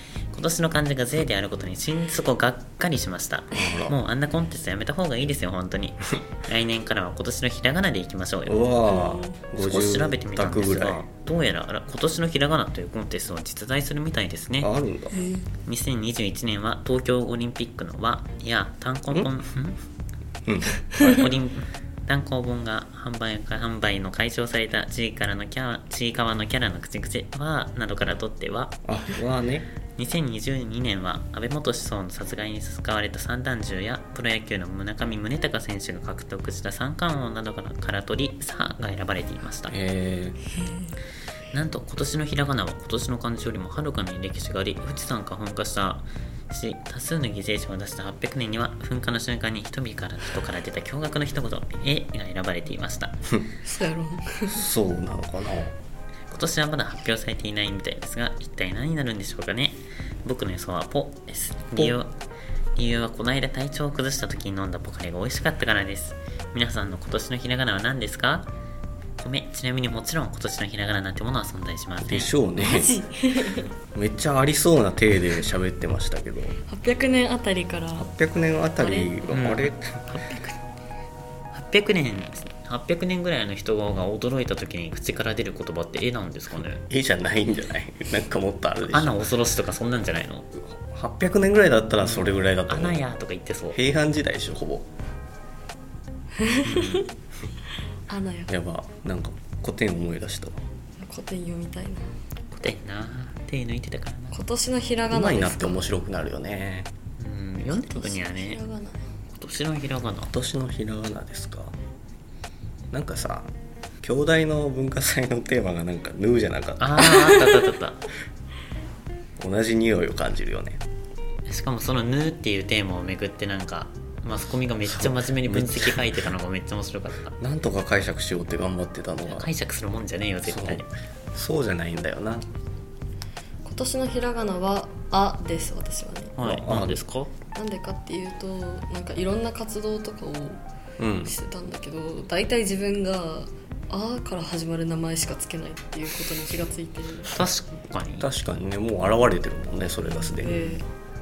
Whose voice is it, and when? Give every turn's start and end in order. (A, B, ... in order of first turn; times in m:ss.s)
0:00.3-0:08.7 A
0:03.5-0:04.0 B
0:08.4-0:11.0 B
0:08.8-0:09.4 C
0:09.6-0:14.7 A
0:14.6-0:15.2 B
0:15.1-0:15.4 C
0:15.6-0:19.8 A
0:20.4-0:21.3 B
0:21.0-0:28.8 A
0:28.8-0:29.7 B
0:30.0-0:39.7 A
0:39.7-0:40.4 B
0:41.5-0:53.2 A
0:53.6-0:54.6 C
0:54.4-0:55.8 B
0:56.3-1:02.1 A
1:02.8-1:08.5 A
1:09.2-1:12.3 A
1:12.0-1:12.9 B
1:12.6-1:13.7 C
1:13.9-1:16.6 B
1:16.7-1:18.1 C
1:18.0-1:20.2 B
1:18.8-1:19.3 C
1:19.3-1:20.6 A
1:21.5-1:26.8 A
1:26.9-1:29.2 B
1:28.8-1:30.5 A
1:30.5-1:33.0 B
1:32.0-1:33.8 A
1:33.7-1:34.9 B
1:36.4-1:37.1 C
1:36.6-1:37.1 A
1:38.1-1:38.5 C
1:38.5-1:40.6 B
1:41.0-1:42.1 C
1:42.5-1:44.4 A
1:44.3-1:45.9 C
1:45.1-1:46.9 B
1:47.2-1:48.6 A
1:47.7-1:49.0 C
1:49.3-1:50.3 A
1:50.3-1:51.7 B
1:52.9-1:57.2 B
1:56.8-1:58.0 A
1:57.1-1:57.6 C
1:59.4-2:00.8 B
2:01.4-2:07.4 A
2:04.9-2:06.2 B
2:07.4-2:09.5 B
2:09.2-2:10.9 A
2:10.4-2:12.4 B
2:13.6-2:16.4 C
2:16.4-2:17.3 A
2:16.4-2:17.0 B
2:17.5-2:20.6 C
2:21.0-2:21.3 B
2:21.2-2:27.4 C
2:27.3-2:28.3 A
2:28.2-2:30.8 B
2:30.3-2:30.8 C